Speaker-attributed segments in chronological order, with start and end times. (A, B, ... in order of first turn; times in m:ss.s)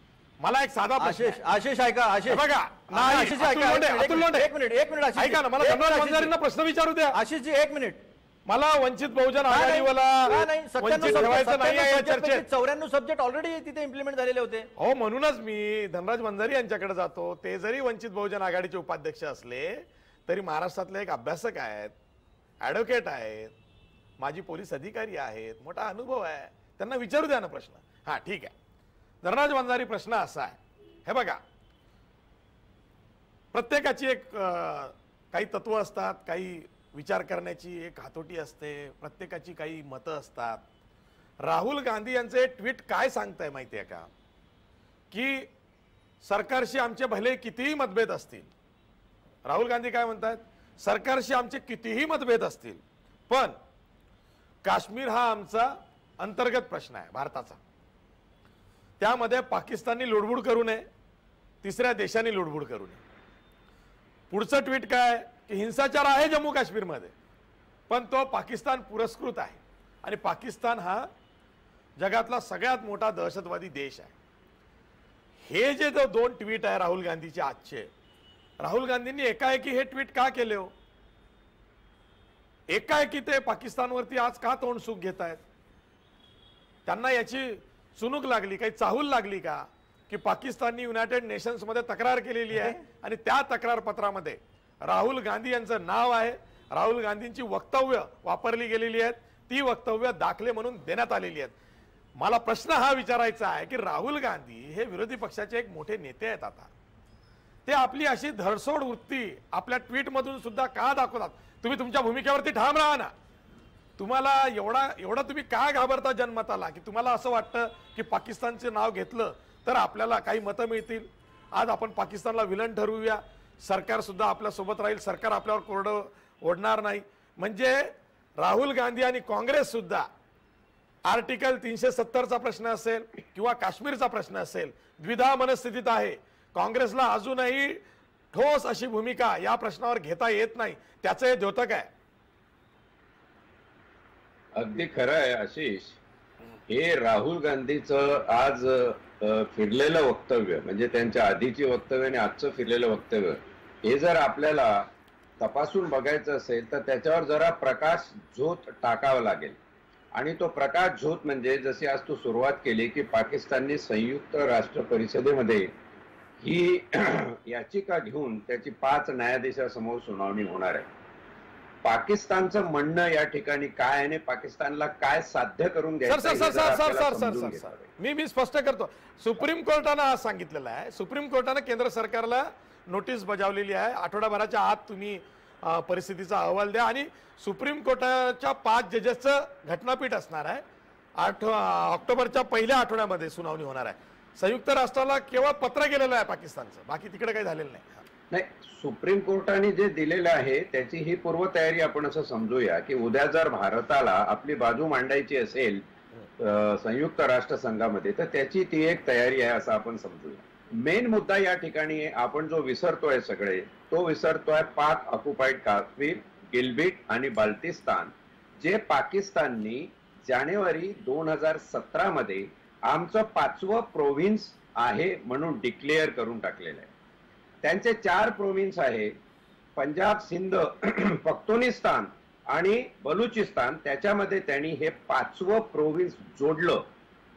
0:00.4-0:01.4 A
0:01.0-0:06.3 B
0:02.3-0:04.5 A
0:05.2-0:07.2 A
0:07.1-0:08.0 B
0:08.5-0:12.5 A
0:09.5-0:14.7 B
0:14.8-0:21.9 A
0:22.6-0:23.5 A
0:24.2-0:28.5 A
0:29.2-0:31.4 A
0:33.5-0:40.6 A
0:41.4-0:44.1 A
0:45.1-0:45.5 A
0:46.2-0:48.5 A
0:49.4-0:53.6 A
0:54.6-0:57.6 A
0:59.0-1:00.8 A
1:01.6-1:03.0 A
1:04.3-1:07.1 A
1:07.9-1:11.1 A
1:12.0-1:14.1 A
1:15.5-1:17.9 A
1:18.6-1:20.7 A
1:22.7-1:25.4 A
1:26.9-1:41.5 A
1:42.2-1:46.7 A
1:47.7-1:53.1 A
1:54.0-2:07.9 A
2:08.4-2:10.1 A
2:11.1-2:17.8 A
2:18.3-2:21.9 A
2:24.6-2:26.0 C
2:26.7-2:34.9 C
2:35.4-2:39.6 C
2:40.2-2:45.7 C
2:46.4-2:50.9 C
2:51.8-2:57.9 C
2:56.1-3:10.6 A
3:11.2-3:18.0 A
3:18.3-3:25.8 C
3:26.4-3:46.9 C
3:47.6-3:49.1 C
3:49.8-3:56.8 C